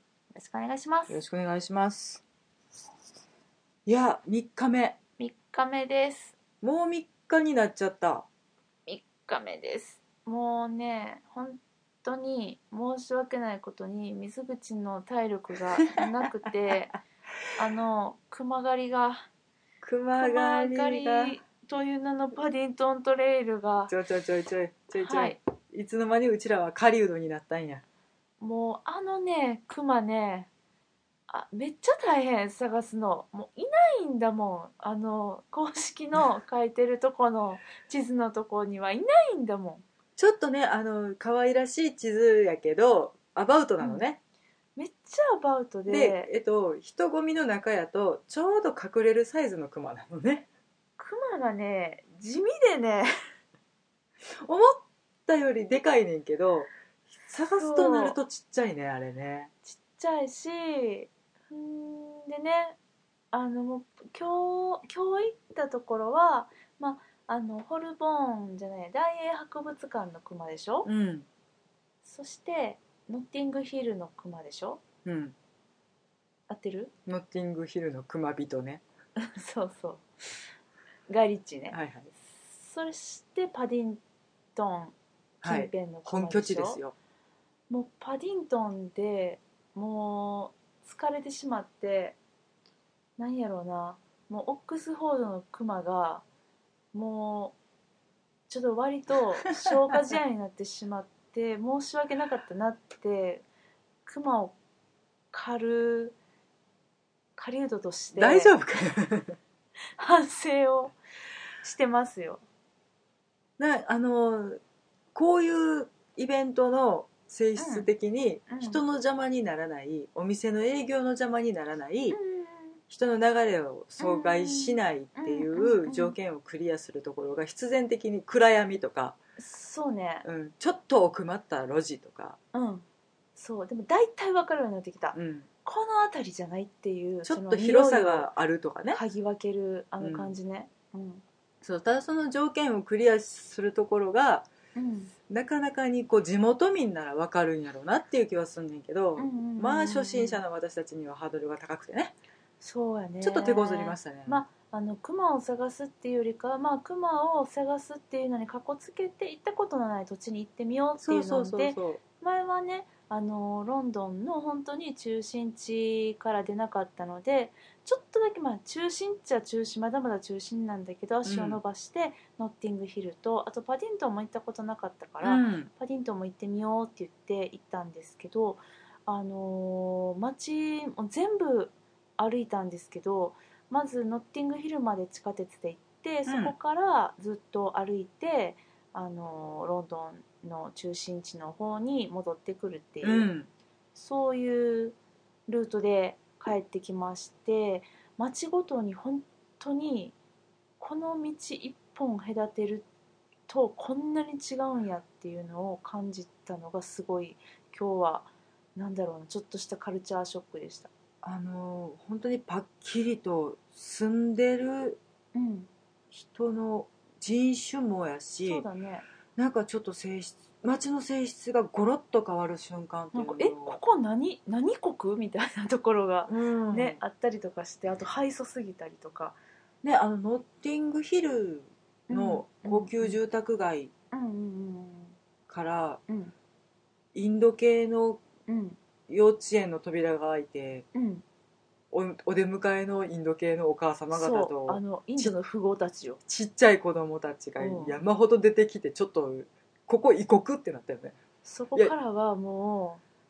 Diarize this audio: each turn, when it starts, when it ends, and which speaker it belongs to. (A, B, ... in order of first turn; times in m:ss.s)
0:00.3-0:01.2 A
0:01.1-0:02.2 B
0:03.8-0:05.0 B
0:05.2-0:06.3 A
0:06.6-0:08.2 B
0:08.9-0:17.0 A
0:17.6-0:19.3 A
0:19.8-0:21.4 B
0:20.2-0:23.9 A
0:23.9-0:27.8 B
0:25.0-0:25.4 A
0:28.4-0:30.5 A
0:31.3-0:39.8 A
0:40.2-0:44.2 B
0:44.8-0:46.3 A
0:45.9-0:50.4 B
0:51.0-0:53.1 A
0:54.3-0:56.7 B
0:57.2-0:59.5 B
0:57.5-0:58.2 A
0:59.6-1:02.8 A
1:03.3-1:10.9 A
1:10.8-1:11.2 B
1:12.0-1:14.8 A
1:15.0-1:15.3 B
1:16.5-1:16.9 A
1:17.0-1:18.8 B
1:19.3-1:20.0 A
1:21.1-1:21.8 A
1:21.7-1:22.1 B
1:22.4-1:24.0 A
1:24.5-1:26.8 A
1:25.4-1:26.9 B
1:27.7-1:32.2 A
1:33.2-1:36.2 A
1:36.9-1:37.6 A
1:38.5-1:43.4 A
1:44.0-1:44.5 A
1:45.3-1:46.2 A
1:47.4-1:48.6 A
1:48.1-1:49.4 B
1:50.0-1:51.0 A
1:51.6-1:52.4 A
1:53.6-1:54.6 B
1:55.1-2:02.2 B
1:57.6-1:57.9 A
1:58.5-1:58.8 A
2:02.1-2:02.8 A
2:02.9-2:09.2 B
2:04.0-2:06.2 A
2:09.4-2:10.2 A
2:10.2-2:12.4 B
2:12.5-2:12.8 A
2:13.4-2:18.3 A
2:15.1-2:15.5 B
2:17.2-2:19.0 B
2:18.9-2:21.2 A
2:20.0-2:20.4 B
2:21.6-2:24.5 B
2:24.7-2:25.1 A
2:25.3-2:32.1 B
2:29.2-2:30.4 A
2:32.6-3:13.3 A
2:33.2-2:34.4 B
2:41.0-2:42.0 B
2:51.2-2:51.6 B
2:55.2-2:55.7 B
3:06.2-3:06.5 B
3:13.0-3:13.5 B
3:13.9-3:15.0 A
3:15.5-3:20.1 A
3:20.8-3:22.8 A
3:23.5-3:30.9 A
3:31.2-3:35.0 B
3:35.3-3:35.7 A
3:36.1-3:38.6 B
3:38.4-3:39.0 A
3:39.4-3:43.8 B
3:43.1-3:49.4 A
3:46.3-3:47.0 B
3:49.8-3:53.9 B
3:52.1-3:53.2 A
3:54.1-3:55.2 A
3:55.5-3:56.0 B
3:56.1-3:56.3 A
3:57.1-3:58.2 B
3:58.5-3:58.8 A
3:59.1-4:00.8 B
4:00.9-4:01.2 A
4:01.9-4:05.3 B
4:04.1-4:06.2 A
4:06.3-4:11.2 B
4:07.6-4:08.0 A
4:11.4-4:13.0 A